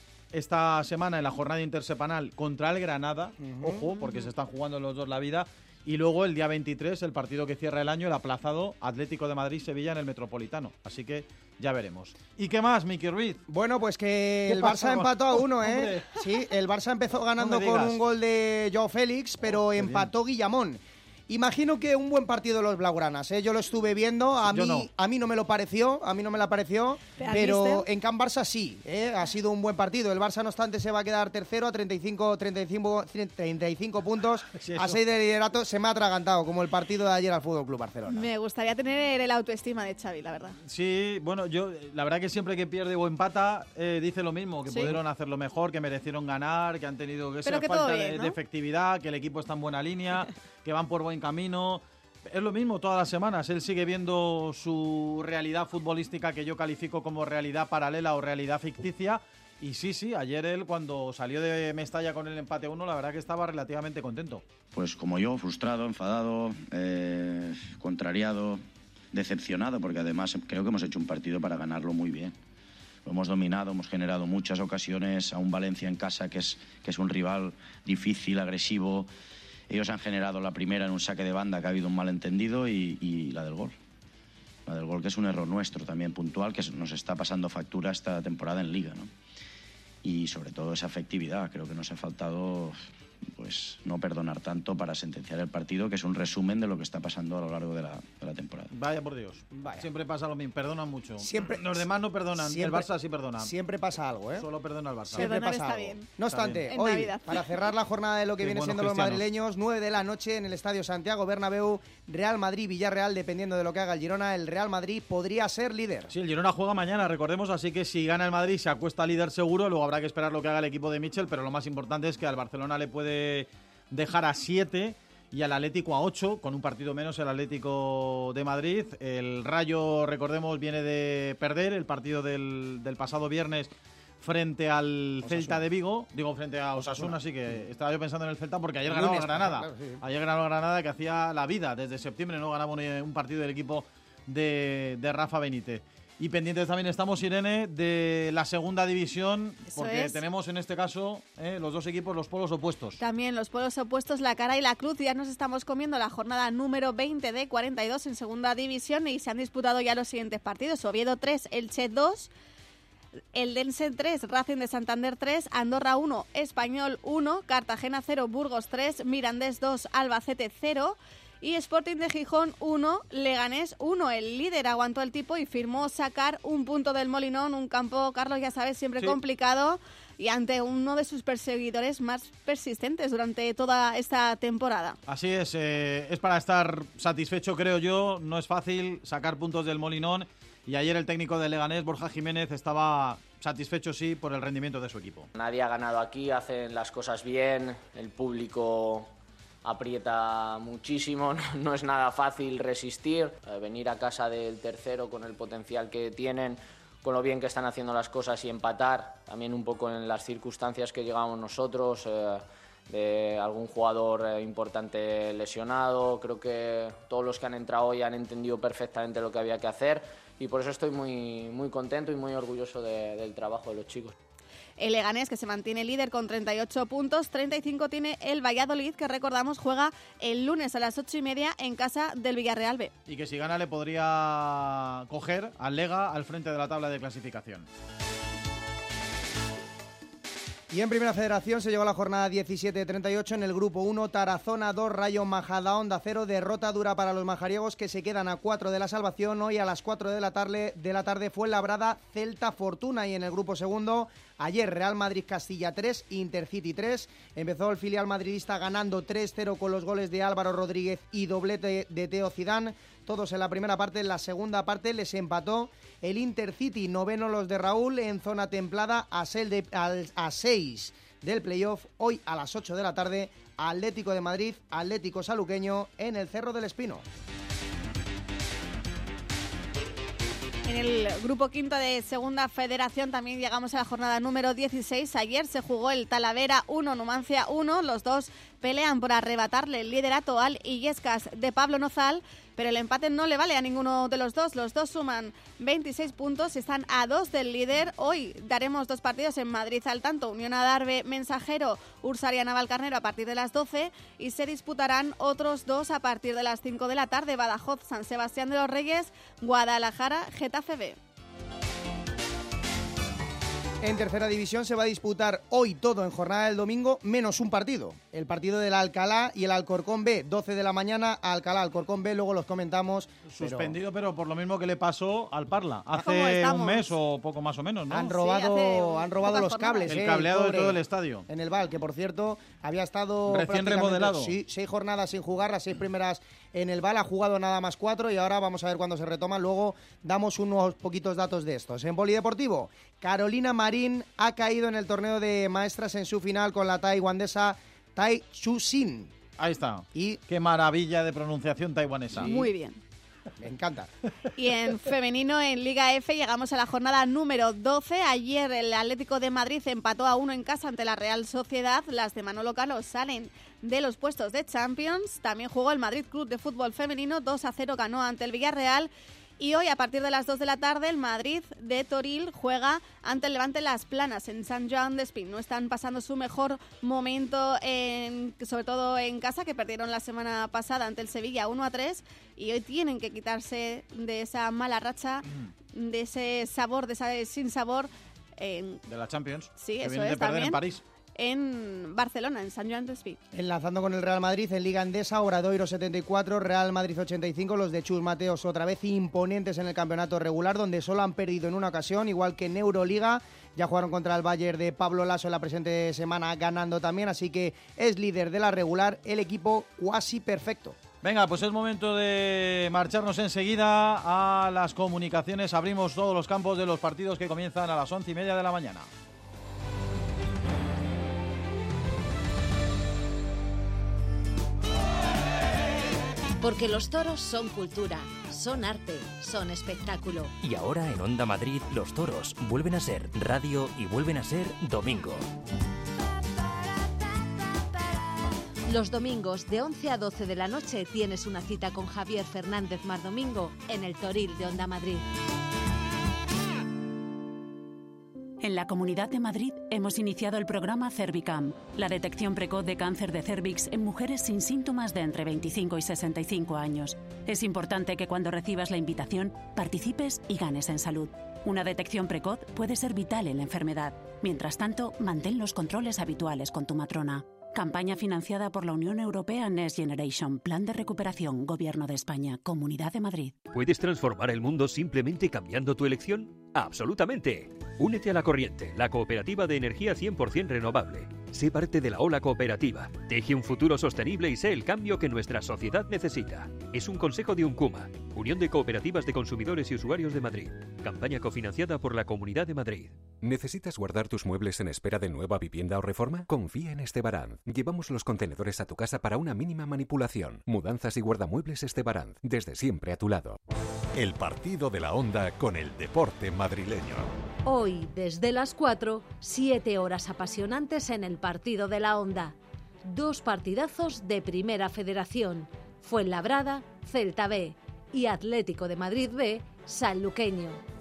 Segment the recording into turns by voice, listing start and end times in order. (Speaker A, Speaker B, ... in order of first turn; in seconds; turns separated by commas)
Speaker A: 0.3-13.4, Speaker B: 3.4-4.1, Speaker B: 13.5-38.3, Speaker A: 14.5-16.1, Speaker A: 17.4-18.0, Speaker A: 19.7-20.1, Speaker A: 24.5-24.9, Speaker C: 27.2-27.8, Speaker A: 34.5-35.0, Speaker C: 38.1-40.6, Speaker A: 40.6-64.4, Speaker C: 44.7-45.0, Speaker C: 47.5-48.4, Speaker D: 64.7-72.3, Speaker D: 73.0-79.1, Speaker D: 79.7-83.8, Speaker D: 84.7-89.1, Speaker D: 90.0-92.8, Speaker D: 93.3-98.7, Speaker A: 98.7-103.5, Speaker B: 99.6-99.8, Speaker B: 101.2-101.8, Speaker B: 102.4-102.9, Speaker B: 103.4-104.5, Speaker A: 104.4-105.4, Speaker B: 105.1-116.1, Speaker C: 105.1-106.1, Speaker A: 106.3-106.6, Speaker C: 106.7-107.4, Speaker A: 108.4-109.2, Speaker A: 116.1-133.7, Speaker A: 134.2-153.0, Speaker B: 135.2-135.6, Speaker B: 136.8-137.2, Speaker B: 138.9-140.0, Speaker C: 149.7-150.2, Speaker C: 153.0-162.3, Speaker C: 163.3-185.0, Speaker A: 185.1-195.3, Speaker E: 195.3-199.1, Speaker E: 199.6-224.2, Speaker C: 224.8-232.9, Speaker A: 233.1-237.7, Speaker B: 240.7-277.0, Speaker C: 280.6-311.0, Speaker B: 313.8-323.8, Speaker A: 323.3-328.1, Speaker C: 326.0-326.9, Speaker B: 327.9-349.1, Speaker C: 328.1-329.9, Speaker A: 329.9-331.3, Speaker A: 333.3-334.4, Speaker A: 349.4-352.4, Speaker B: 349.9-350.2, Speaker C: 352.2-352.8, Speaker B: 353.4-353.9, Speaker C: 354.4-388.8, Speaker A: 388.9-390.8, Speaker C: 389.6-390.6, Speaker C: 391.2-393.2, Speaker B: 393.3-410.8, Speaker A: 411.0-418.9, Speaker F: 426.4-430.3, Speaker G: 430.4-435.2, Speaker F: 438.7-445.0, Speaker H: 448.4-473.4, Speaker I: 473.5-493.1, Speaker J: 493.2-503.4, Speaker K: 503.9-507.1, Speaker F: 507.4-520.6